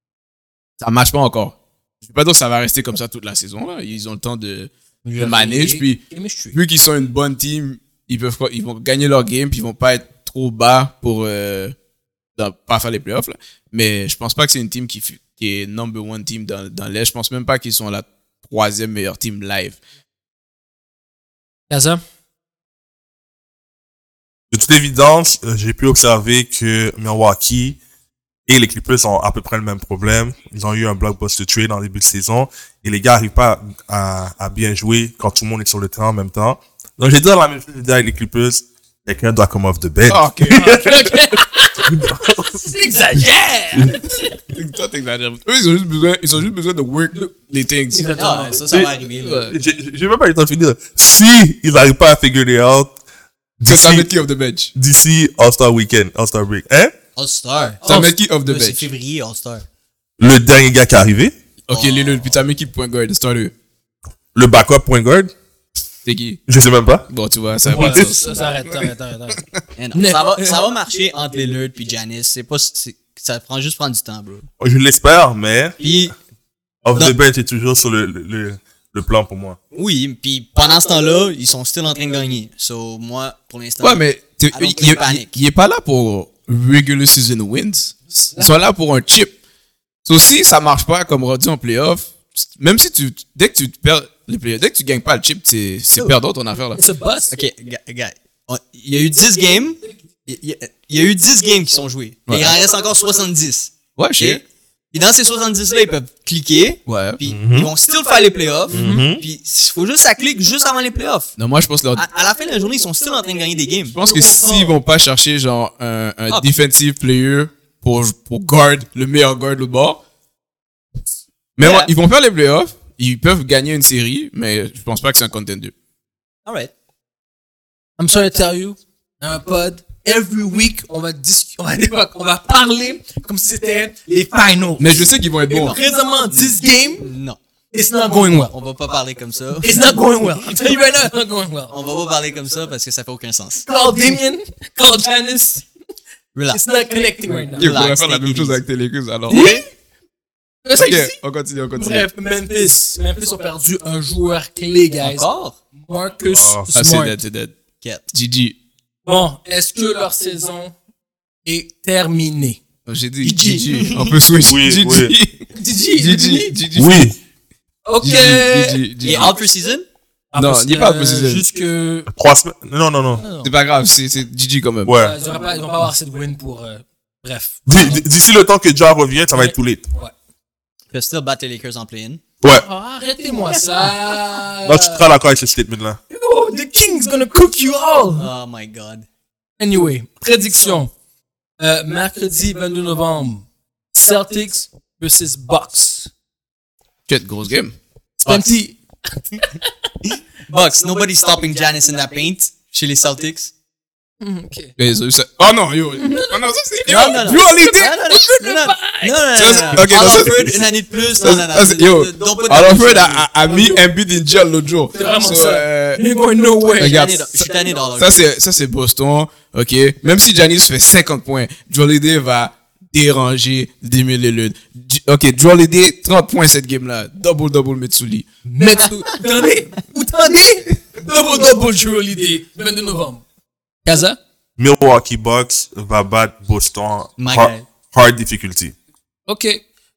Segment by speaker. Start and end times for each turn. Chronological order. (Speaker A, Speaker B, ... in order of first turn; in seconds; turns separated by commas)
Speaker A: 0.8-6.0, Speaker B: 5.0-6.6, Speaker A: 6.5-11.7, Speaker A: 12.3-19.8, Speaker B: 21.7-22.0, Speaker C: 24.5-27.8, Speaker C: 28.5-41.2, Speaker A: 40.1-40.9, Speaker B: 40.5-44.4, Speaker C: 41.9-42.7, Speaker A: 44.5-48.1, Speaker B: 47.9-48.6, Speaker D: 48.1-49.5, Speaker A: 49.2-49.6, Speaker C: 49.5-52.9, Speaker C: 53.6-54.1, Speaker A: 53.6-54.7, Speaker C: 54.7-56.9, Speaker D: 57.1-59.6, Speaker A: 57.8-58.9, Speaker C: 60.2-61.3, Speaker A: 61.7-63.5, Speaker D: 61.7-62.2, Speaker C: 64.3-65.3, Speaker A: 66.0-66.4, Speaker C: 66.5-67.1, Speaker A: 67.1-68.2, Speaker B: 67.7-69.4, Speaker C: 67.8-68.0, Speaker D: 69.8-74.5, Speaker B: 69.9-70.5, Speaker C: 74.6-75.8, Speaker D: 75.8-76.1, Speaker C: 76.8-79.6, Speaker D: 79.7-85.4, Speaker A: 83.8-89.3, Speaker B: 88.2-88.5, Speaker A: 90.0-96.8, Speaker B: 96.7-97.3, Speaker D: 97.3-111.4, Speaker A: 102.3-102.5, Speaker A: 104.0-104.4, Speaker A: 106.9-107.2, Speaker C: 107.2-107.7, Speaker B: 108.7-109.0, Speaker C: 108.7-109.2, Speaker A: 111.4-112.0, Speaker D: 111.9-113.9, Speaker A: 113.9-120.0, Speaker B: 114.0-114.7, Speaker A: 121.6-125.7, Speaker D: 121.6-121.9, Speaker D: 126.5-126.7, Speaker B: 128.0-137.1, Speaker A: 134.8-135.8, Speaker D: 135.5-135.8, Speaker D: 136.3-137.4, Speaker B: 137.7-138.5, Speaker D: 138.5-139.8, Speaker B: 139.6-141.7, Speaker D: 141.7-143.7, Speaker B: 143.6-145.6, Speaker D: 146.3-146.6, Speaker B: 146.5-147.7, Speaker D: 147.4-148.6, Speaker A: 147.6-149.5, Speaker D: 149.3-149.6, Speaker B: 149.3-149.6, Speaker B: 150.6-151.2, Speaker A: 150.8-152.1, Speaker B: 151.7-157.2, Speaker D: 155.0-155.6, Speaker C: 156.3-156.7, Speaker A: 156.7-157.5, Speaker A: 158.1-158.6, Speaker B: 159.0-160.7, Speaker B: 161.4-162.6, Speaker A: 162.8-167.1, Speaker B: 163.2-163.6, Speaker D: 163.3-164.2, Speaker C: 164.4-165.1, Speaker B: 165.5-166.6, Speaker C: 166.7-167.2, Speaker B: 167.8-169.3, Speaker A: 168.0-169.3, Speaker D: 169.0-169.8, Speaker B: 170.3-172.1, Speaker A: 170.3-171.4, Speaker C: 172.1-173.2, Speaker B: 173.2-173.5, Speaker A: 173.4-174.9, Speaker C: 174.8-175.2, Speaker B: 175.0-178.0, Speaker C: 177.7-179.8, Speaker B: 179.3-180.1, Speaker D: 180.9-182.2, Speaker B: 182.4-185.0, Speaker C: 184.6-186.0, Speaker B: 186.1-188.3, Speaker D: 188.2-189.1, Speaker B: 189.6-190.9, Speaker B: 191.6-196.1, Speaker A: 197.1-197.8, Speaker B: 198.2-199.9, Speaker D: 200.5-203.5, Speaker B: 204.2-204.7, Speaker A: 204.8-208.2, Speaker B: 206.0-209.8, Speaker D: 206.9-213.3, Speaker A: 209.3-210.6, Speaker A: 211.2-216.0, Speaker B: 213.5-213.8, Speaker B: 214.9-217.2, Speaker D: 216.8-218.3, Speaker A: 216.8-228.3, Speaker B: 228.4-233.2, Speaker B: 233.8-234.2, Speaker C: 234.6-238.7, Speaker D: 237.2-237.7, Speaker B: 239.3-239.6